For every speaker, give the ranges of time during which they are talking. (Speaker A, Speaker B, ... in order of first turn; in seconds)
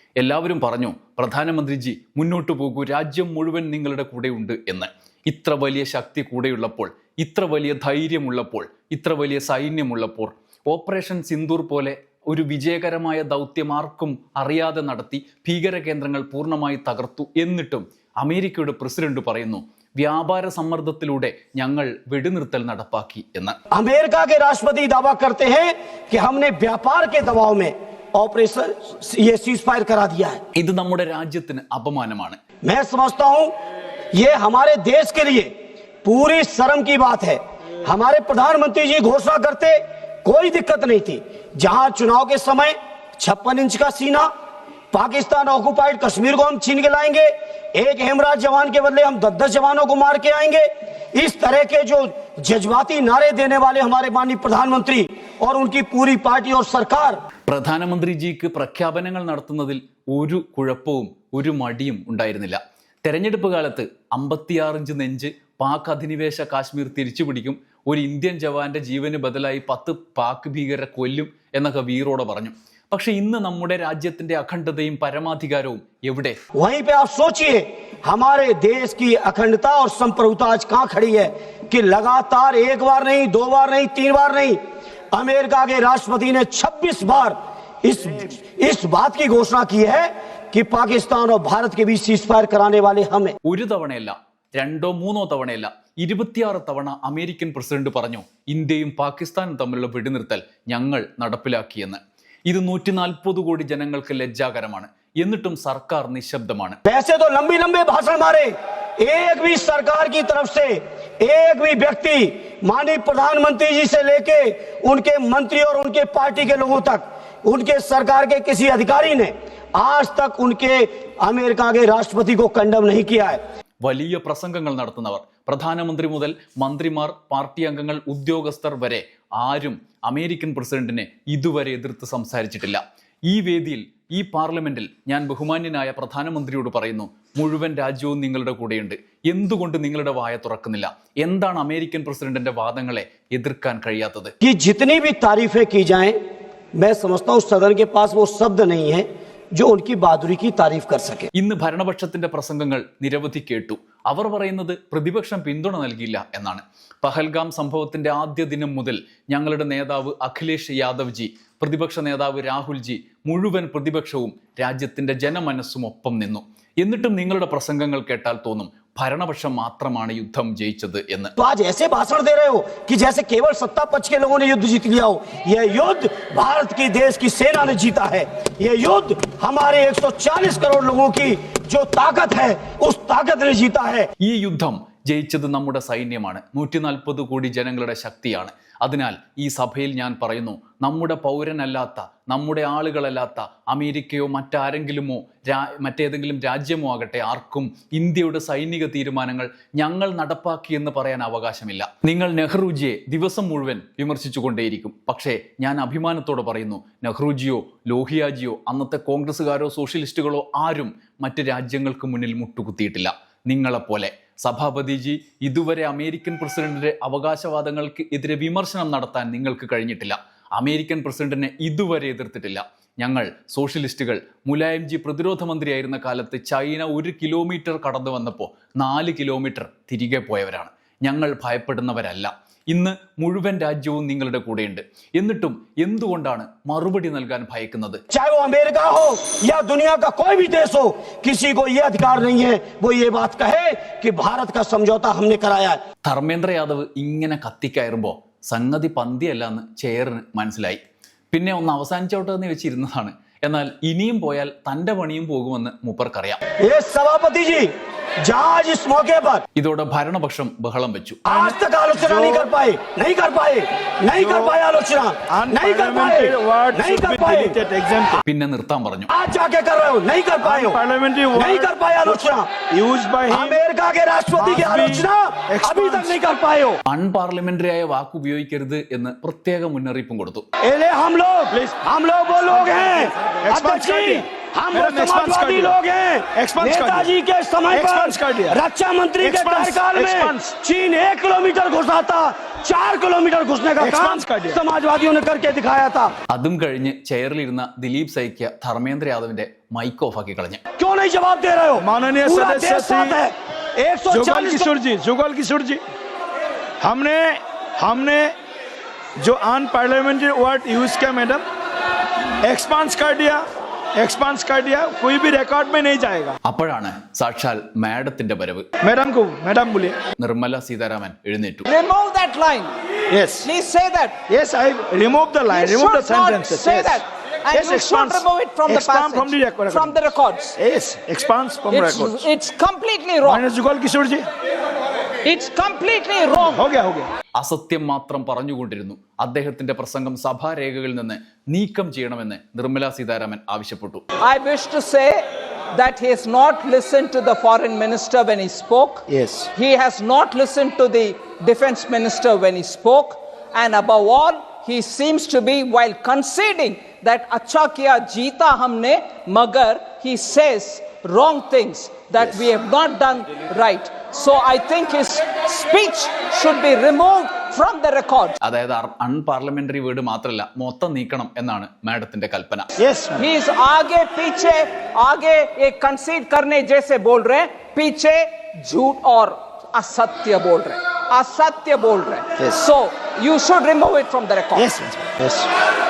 Speaker A: 0.2-23.6, 30.6-32.4, 57.5-76.4, 93.5-106.8, 123.8-144.3, 151.3-171.3, 184.2-238.0, 246.1-250.8, 251.3-256.4, 259.6-261.2, 268.2-269.1, 276.9-280.4, 296.3-300.6, 316.4-318.7, 320.2-321.7, 337.4-344.0, 368.4-372.7
Speaker B: 23.7-30.4, 32.6-33.5, 34.1-35.5, 36.0-44.3, 44.9-57.2, 76.6-84.6, 85.1-93.4, 106.9-123.4, 144.4-146.2, 146.8-151.3, 171.4-184.1, 238.1-245.8, 256.6-257.7, 258.3-259.4, 261.3-267.6, 269.1-270.8, 271.3-272.5, 273.3-276.8, 280.6-296.1, 300.8-304.7
Speaker C: 261.3-262.5, 264.2-264.5, 265.3-268.2, 270.4-273.6, 274.4-276.1, 281.5-281.8, 282.6-285.8, 286.4-287.1, 287.7-288.6, 289.2-290.5, 293.8-294.6, 301.8-303.2, 304.1-305.8, 306.8-308.3, 309.2-311.4, 312.4-313.4, 313.9-316.4, 318.8-320.0, 323.1-323.5, 324.3-327.0, 327.5-330.0, 330.6-332.2, 333.2-334.3, 336.5-337.1, 349.1-349.5, 372.8-373.2, 384.6-385.5
Speaker D: 321.7-322.7, 323.4-324.2, 325.5-330.6, 331.7-333.4, 335.2-336.6, 344.2-368.4, 373.2-384.7